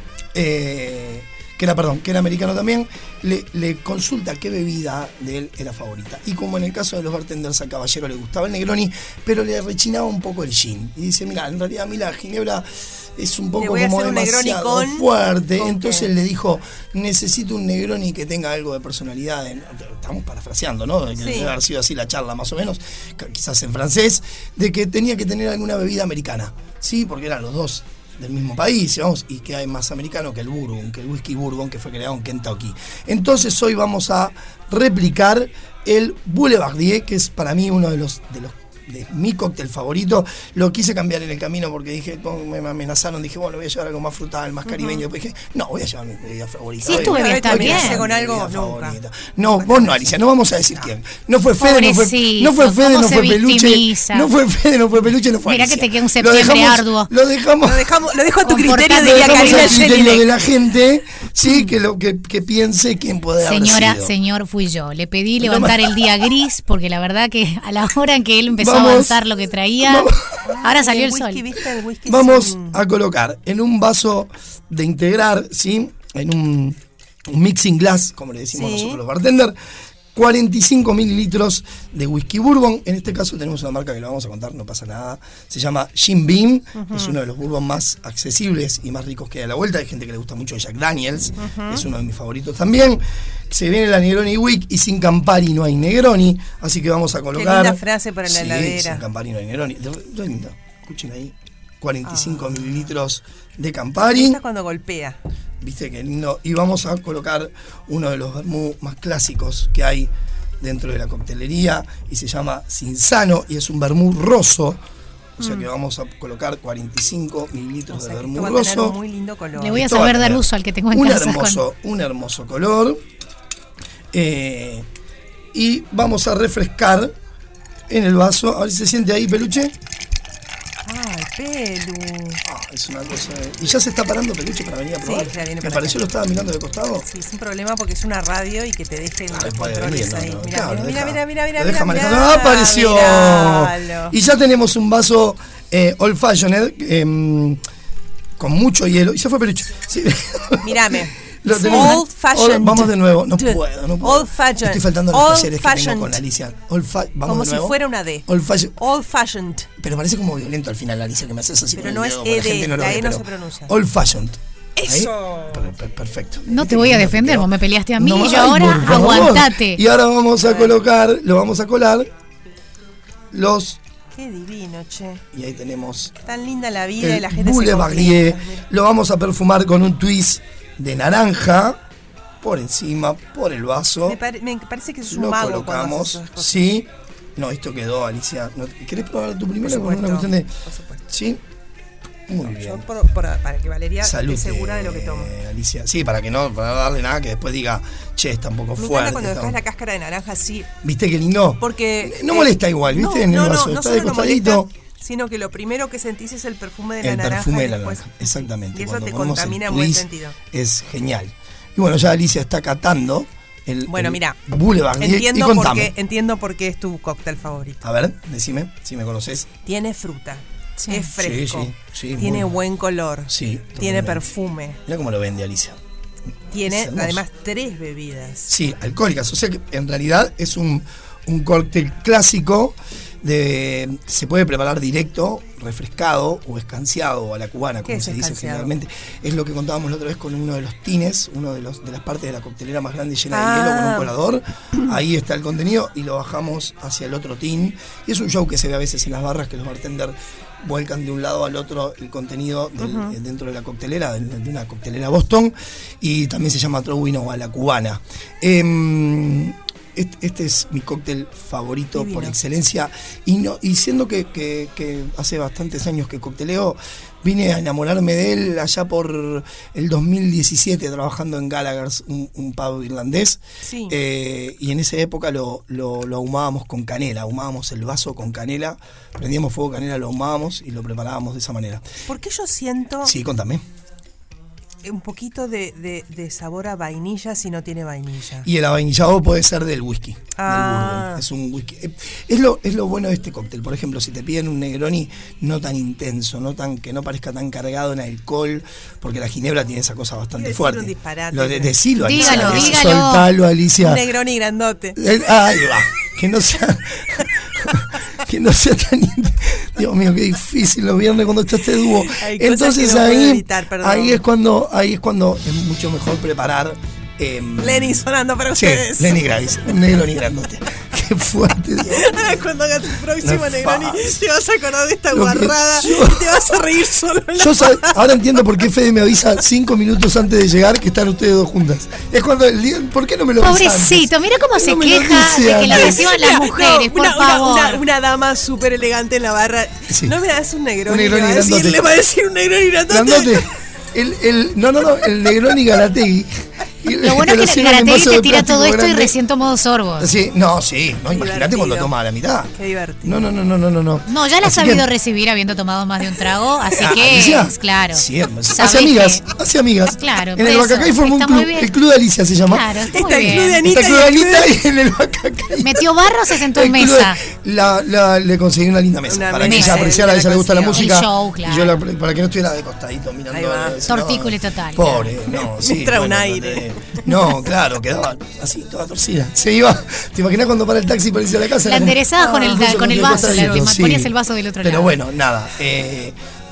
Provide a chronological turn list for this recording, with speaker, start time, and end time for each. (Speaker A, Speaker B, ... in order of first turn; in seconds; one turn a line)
Speaker A: 0.3-57.9
Speaker B: 13.6-16.1
Speaker B: 21.2-21.6
Speaker B: 44.6-45.0
Speaker C: 46.8-48.0
Speaker B: 46.9-50.0
Speaker C: 51.6-54.3
Speaker C: 55.4-57.1
Speaker B: 57.6-60.2
Speaker C: 58.4-60.2
Speaker A: 59.0-64.1
Speaker C: 63.4-71.4
Speaker A: 65.4-66.1
Speaker A: 68.6-69.2
Speaker A: 69.8-70.5
Speaker B: 70.4-72.8
Speaker A: 72.0-79.5
Speaker B: 78.5-79.0
Speaker A: 80.1-104.4
Speaker B: 86.8-87.1
Speaker B: 91.4-91.8
Speaker B: 97.3-99.0
Speaker B: 102.0-102.9
Speaker B: 104.0-105.2
Speaker A: 105.6-114.8
Speaker A: 115.4-119.0
Speaker B: 115.4-115.7
Speaker B: 117.9-119.8
Speaker C: 119.6-121.6
Speaker A: 119.7-123.0
Speaker A: 124.1-124.8
Speaker A: 125.5-127.1
Speaker A: 127.9-129.7
Speaker B: 130.8-132.4
Speaker A: 132.4-137.1
Speaker B: 135.0-136.1
Speaker B: 137.0-144.1
Speaker A: 139.3-147.6
Speaker A: 148.4-158.8
Speaker B: 150.6-156.2
Speaker C: 151.7-152.0
Speaker B: 157.2-159.7
Speaker A: 159.8-172.1
Speaker B: 161.7-163.7
Speaker B: 164.8-165.7
Speaker C: 166.5-169.8
Speaker B: 170.4-170.8
Speaker A: 173.3-173.8
Speaker B: 174.1-175.2
Speaker A: 175.3-176.1
Speaker B: 176.2-178.6
Speaker A: 177.0-181.8
Speaker A: 182.4-184.2
Speaker B: 184.1-186.6
Speaker A: 185.1-190.5
Speaker B: 189.6-191.0
Speaker A: 191.1-191.4
Speaker A: 192.3-192.8
Speaker B: 192.4-195.3
Speaker A: 194.0-199.6
Speaker B: 198.8-200.7
Speaker A: 200.8-204.7
Speaker B: 201.6-210.3
Speaker A: 207.0-215.9
Speaker B: 213.9-214.4
Speaker B: 215.0-217.8
Speaker A: 217.8-219.5
Speaker B: 219.6-224.8
Speaker A: 221.1-222.5
Speaker A: 223.3-224.3
Speaker A: 224.8-225.8
Speaker B: 226.5-228.5
Speaker A: 226.7-227.2
Speaker A: 228.5-281.8
Speaker B: 237.8-238.7
Speaker B: 243.3-244.1
Speaker B: 252.8-253.2
Speaker B: 261.9-262.4
Speaker B: 273.6-274.0
Speaker B: 282.1-283.1
Speaker A: 283.0-283.6
Speaker B: 284.8-288.5
Speaker A: 288.4-304.1
Speaker B: 290.4-291.2
Speaker B: 300.3-302.9
Speaker C: 302.0-303.3
Speaker B: 303.8-305.0
Speaker A: 304.9-322.1
Speaker B: 311.8-314.2
Speaker B: 317.6-319.8
Speaker B: 321.8-328.4
Speaker A: 323.2-324.2
Speaker A: 325.1-326.5
Speaker A: 327.4-336.1
Speaker C: 333.4-337.8
Speaker B: 335.6-343.5
Speaker A: 340.9-342.0
Speaker A: 342.9-346.3
Speaker A: 346.8-349.1
Speaker C: 347.0-350.1
Speaker A: 350.0-354.9
Speaker B: 351.1-351.9
Speaker B: 352.5-353.3
Speaker C: 354.1-359.2
Speaker A: 356.8-362.7
Speaker C: 359.9-361.7
Speaker C: 362.4-363.6
Speaker B: 362.9-364.5
Speaker A: 363.5-386.1
Speaker C: 365.6-367.2
Speaker B: 369.1-370.9
Speaker C: 369.4-369.9
Speaker C: 370.7-371.8
Speaker B: 373.3-373.8
Speaker C: 373.9-375.1
Speaker B: 375.3-377.4
Speaker C: 381.6-384.9
Speaker B: 382.1-383.7